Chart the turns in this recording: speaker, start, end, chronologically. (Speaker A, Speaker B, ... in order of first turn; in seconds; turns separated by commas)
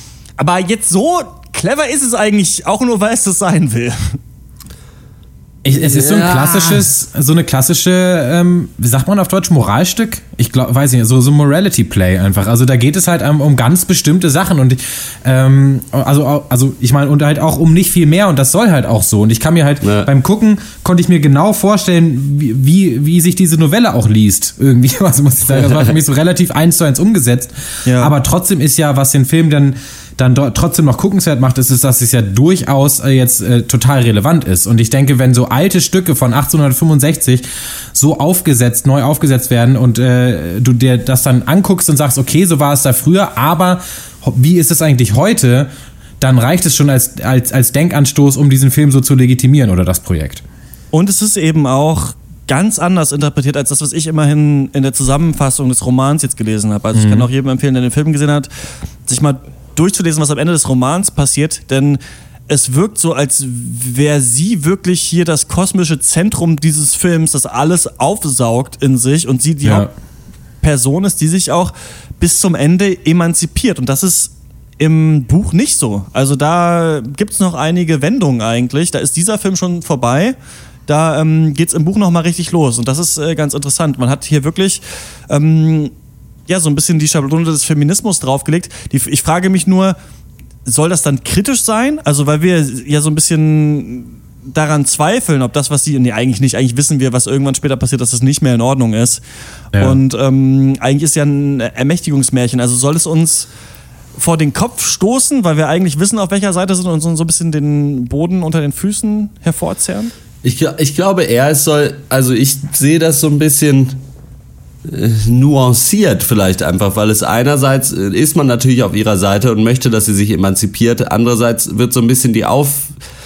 Speaker A: 0.4-4.2, Speaker B: 5.6-45.7, Speaker C: 5.7-6.9, Speaker C: 19.8-20.1, Speaker A: 27.8-28.1, Speaker B: 46.2-50.4, Speaker A: 50.9-58.5, Speaker B: 56.9-57.3, Speaker A: 59.0-69.9, Speaker A: 70.6-80.3, Speaker A: 80.9-85.9, Speaker A: 86.5-90.0, Speaker A: 90.6-99.2, Speaker A: 99.8-103.5, Speaker A: 104.2-110.1, Speaker C: 110.4-114.0, Speaker C: 114.8-122.9